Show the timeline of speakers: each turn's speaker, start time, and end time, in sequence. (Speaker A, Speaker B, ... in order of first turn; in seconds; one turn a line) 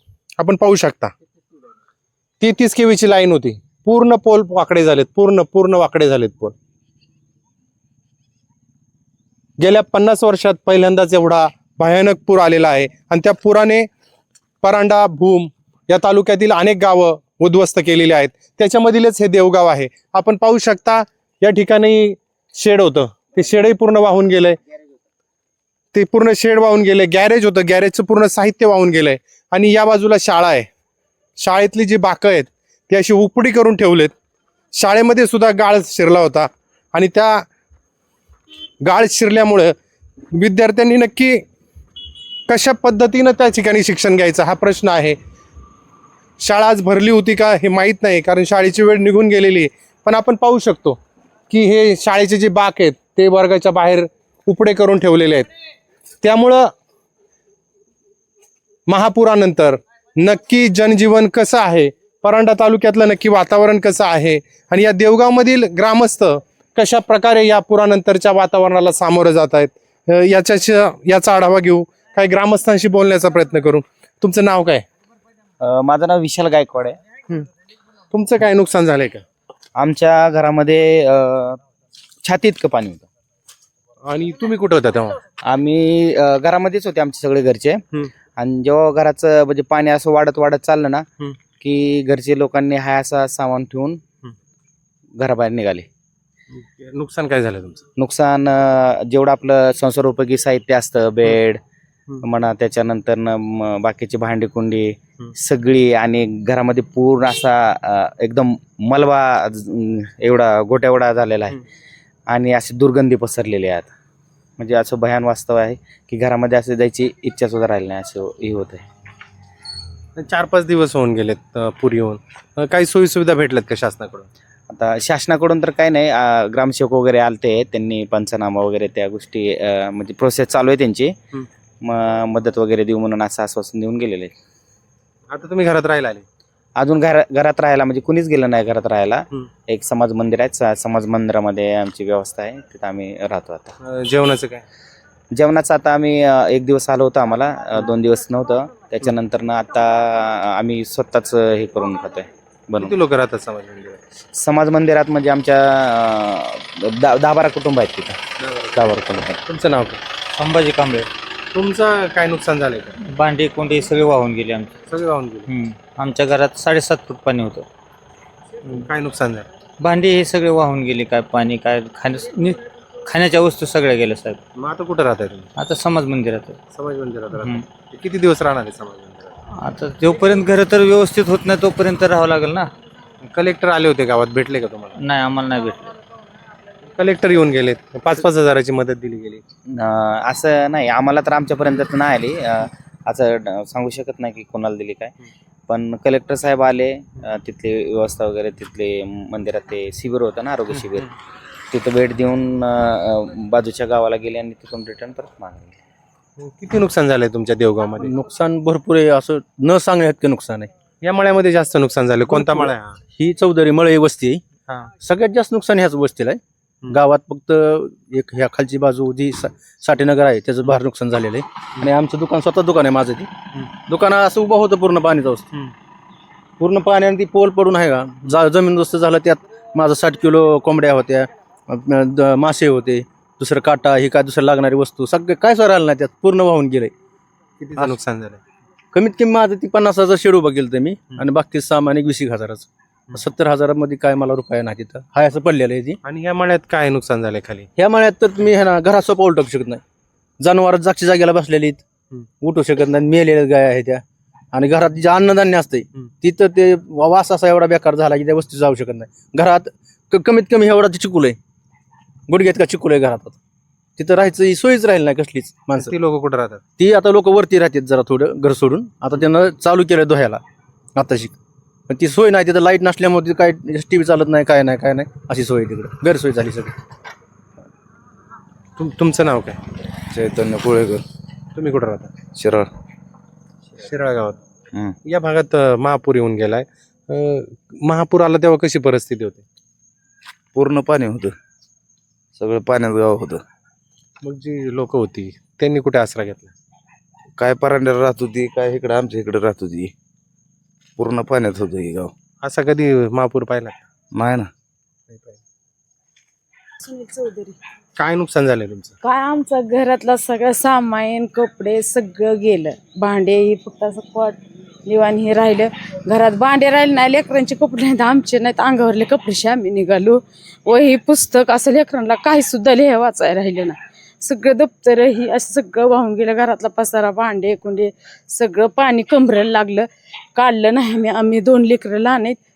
Speaker A: 0.4-1.1
Speaker A: 2.4-6.5
Speaker A: 9.6-13.9
Speaker A: 14.6-24.6
Speaker A: 25.9-30.7
Speaker A: 31.4-34.1
Speaker A: 34.7-37.5
Speaker A: 38.8-39.7
Speaker A: 40.3-41.4
Speaker A: 42.5-45.2
Speaker A: 46.4-51.0
Speaker A: 51.5-55.5
Speaker A: 56.2-56.7
Speaker A: 58.9-74.8
Speaker B: 75.6-77.0
Speaker A: 78.1-79.2
Speaker B: 79.8-81.6
Speaker B: 82.2-83.0
Speaker A: 84.0-85.2
Speaker B: 85.4-87.8
Speaker B: 88.4-91.0
Speaker B: 91.6-94.0
Speaker B: 95.2-95.9
Speaker A: 96.5-97.8
Speaker B: 98.0-101.6
Speaker B: 102.2-111.6
Speaker B: 112.3-113.9
Speaker B: 114.6-118.8
Speaker A: 120.2-124.3
Speaker B: 124.7-131.2
Speaker B: 131.8-134.3
Speaker A: 135.3-136.2
Speaker B: 136.8-143.7
Speaker A: 143.8-144.6
Speaker B: 145.3-152.9
Speaker A: 152.8-154.0
Speaker B: 154.3-158.2
Speaker A: 158.4-158.8
Speaker B: 158.7-159.4
Speaker A: 159.4-160.0
Speaker C: 160.3-161.1
Speaker A: 161.5-163.0
Speaker C: 163.0-164.7
Speaker A: 164.9-165.5
Speaker C: 165.5-167.7
Speaker A: 168.7-169.5
Speaker C: 169.8-174.4
Speaker A: 174.6-175.5
Speaker C: 175.6-176.6
Speaker A: 176.7-179.3
Speaker C: 177.4-177.7
Speaker C: 179.5-182.7
Speaker A: 183.2-185.0
Speaker C: 184.9-185.9
Speaker A: 186.9-189.4
Speaker B: 189.7-195.1
Speaker B: 195.7-201.1
Speaker B: 201.7-205.7
Speaker A: 206.4-208.1
Speaker D: 208.0-210.7
Speaker A: 211.0-213.0
Speaker D: 212.3-214.4
Speaker D: 215.0-225.5
Speaker D: 226.6-236.9
Speaker A: 237.6-238.4
Speaker D: 238.9-246.0
Speaker A: 246.0-247.7
Speaker D: 247.8-249.8
Speaker D: 250.4-251.8
Speaker D: 252.4-261.4
Speaker D: 262.3-263.4
Speaker D: 264.0-265.9
Speaker A: 265.8-266.6
Speaker D: 266.8-270.4
Speaker D: 270.9-271.3
Speaker D: 271.9-276.7
Speaker A: 278.8-279.6
Speaker E: 280.1-281.0
Speaker A: 281.5-282.1
Speaker E: 282.3-282.7
Speaker A: 283.8-284.4
Speaker A: 285.1-289.4
Speaker E: 290.5-291.4
Speaker E: 292.4-293.4
Speaker A: 294.2-296.5
Speaker E: 297.4-299.9
Speaker E: 301.0-302.1
Speaker A: 302.4-303.8
Speaker E: 304.1-304.5
Speaker A: 305.1-305.4
Speaker F: 306.8-307.6
Speaker A: 308.0-308.9
Speaker F: 309.0-332.4